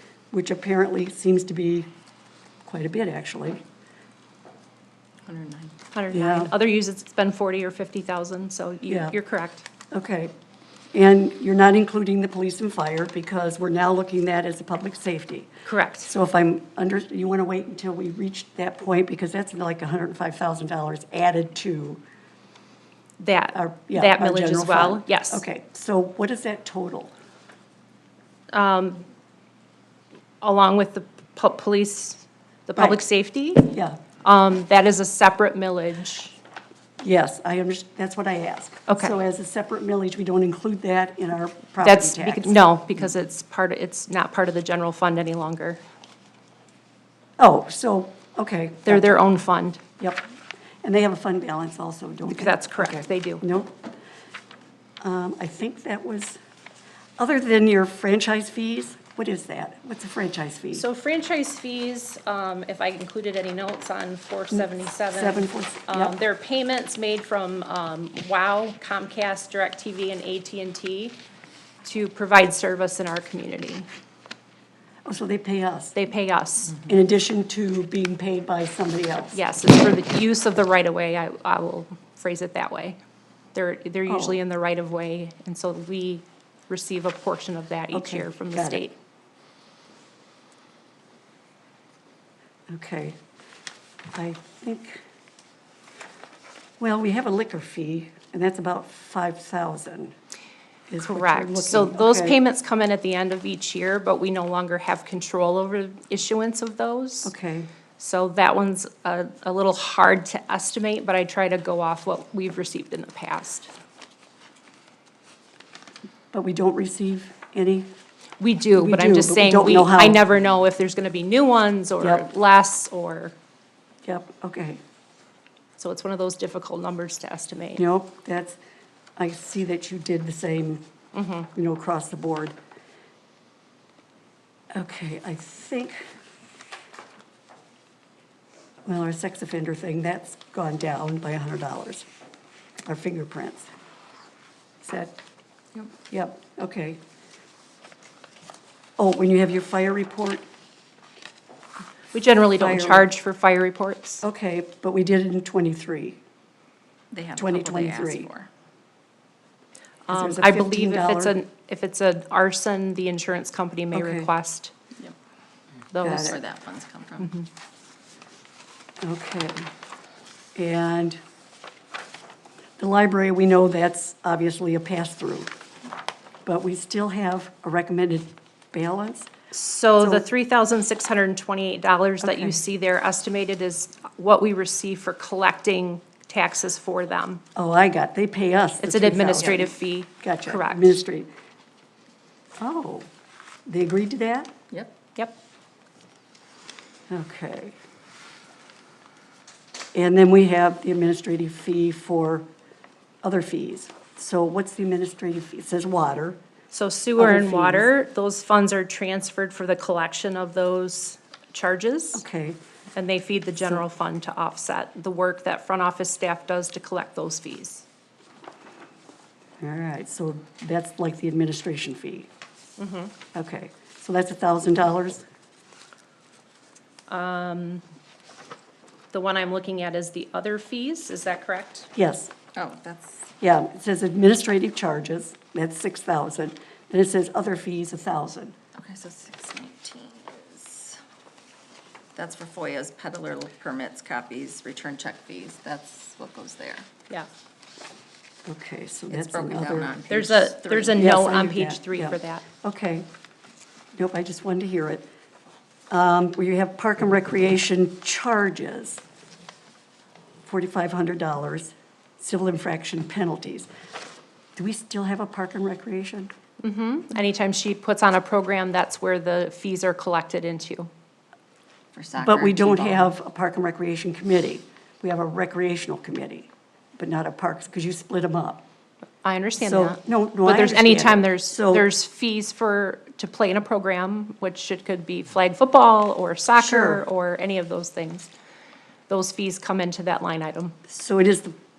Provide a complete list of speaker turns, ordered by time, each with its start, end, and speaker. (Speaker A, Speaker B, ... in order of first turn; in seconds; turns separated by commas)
Speaker A: 0.3-1.9, Speaker A: 2.7-3.6, Speaker B: 5.3-5.7, Speaker C: 5.9-9.7, Speaker A: 6.1-6.5, Speaker A: 8.9-9.2, Speaker A: 9.9-10.3, Speaker A: 10.9-15.5, Speaker C: 15.7-16.1, Speaker A: 16.0-22.0, Speaker C: 23.2-25.4, Speaker A: 23.5-27.1, Speaker C: 28.5-29.1, Speaker C: 30.4-36.4, Speaker A: 32.8-33.0, Speaker A: 33.7-34.0, Speaker A: 37.0-42.6, Speaker C: 38.9-39.2, Speaker C: 41.8-45.8, Speaker A: 47.4-49.2, Speaker C: 48.9-49.8, Speaker A: 50.8-53.7, Speaker C: 52.2-53.4, Speaker A: 55.0-56.4, Speaker A: 57.2-60.9, Speaker C: 60.7-71.2, Speaker A: 64.5-66.2, Speaker C: 71.8-73.9, Speaker A: 75.0-76.0, Speaker C: 76.0-76.8, Speaker A: 76.8-79.4, Speaker C: 79.3-83.0, Speaker C: 83.5-89.0, Speaker A: 84.1-84.4, Speaker A: 87.9-88.8, Speaker A: 92.7-93.2, Speaker A: 94.1-95.0, Speaker A: 96.8-100.1, Speaker A: 100.9-102.4, Speaker C: 101.0-107.3, Speaker A: 107.2-107.7, Speaker C: 108.0-113.7, Speaker A: 116.3-117.9, Speaker C: 118.4-123.3, Speaker A: 118.7-120.2, Speaker A: 122.0-122.3, Speaker A: 124.0-124.8, Speaker C: 125.8-127.8, Speaker A: 127.8-128.6, Speaker A: 129.2-130.8, Speaker C: 131.1-131.5, Speaker A: 131.6-132.6, Speaker A: 134.7-136.0, Speaker A: 138.9-142.1, Speaker A: 142.9-143.7, Speaker A: 144.8-145.2, Speaker A: 146.1-147.0, Speaker A: 149.0-150.4, Speaker C: 152.1-154.2, Speaker A: 152.6-153.1, Speaker A: 154.2-156.2, Speaker B: 157.1-158.5, Speaker A: 157.4-158.3, Speaker C: 160.1-164.7, Speaker A: 160.1-161.4, Speaker A: 163.9-164.3, Speaker C: 165.9-166.4, Speaker A: 166.0-166.4, Speaker B: 166.1-167.3, Speaker C: 167.2-167.5, Speaker A: 169.0-169.7, Speaker A: 170.6-171.2, Speaker A: 172.8-175.5, Speaker A: 176.5-179.3, Speaker C: 179.5-187.4, Speaker A: 180.0-180.3, Speaker A: 182.2-182.6, Speaker A: 187.6-191.3, Speaker C: 188.8-191.0, Speaker A: 192.6-193.1, Speaker A: 193.7-194.5, Speaker A: 197.1-197.8, Speaker A: 199.9-202.5, Speaker A: 203.2-206.4, Speaker C: 206.7-212.2, Speaker A: 207.2-207.9, Speaker A: 212.2-212.6, Speaker C: 212.9-217.8, Speaker A: 219.6-222.3, Speaker C: 222.8-223.1, Speaker A: 223.3-225.3, Speaker C: 227.1-227.8, Speaker C: 229.1-231.9, Speaker A: 232.0-232.3, Speaker B: 232.6-233.3, Speaker A: 233.4-238.6, Speaker B: 238.8-241.0, Speaker B: 242.2-246.9, Speaker A: 248.5-250.0, Speaker B: 249.1-251.1, Speaker C: 250.1-252.4, Speaker A: 250.9-253.1, Speaker A: 254.0-255.1, Speaker A: 255.9-259.0, Speaker A: 260.5-263.7, Speaker A: 264.6-266.3, Speaker C: 266.6-270.9, Speaker B: 271.9-273.1, Speaker A: 272.2-278.6, Speaker C: 279.2-288.3, Speaker A: 279.6-281.9, Speaker A: 286.6-287.0, Speaker C: 289.1-290.7, Speaker A: 290.9-291.6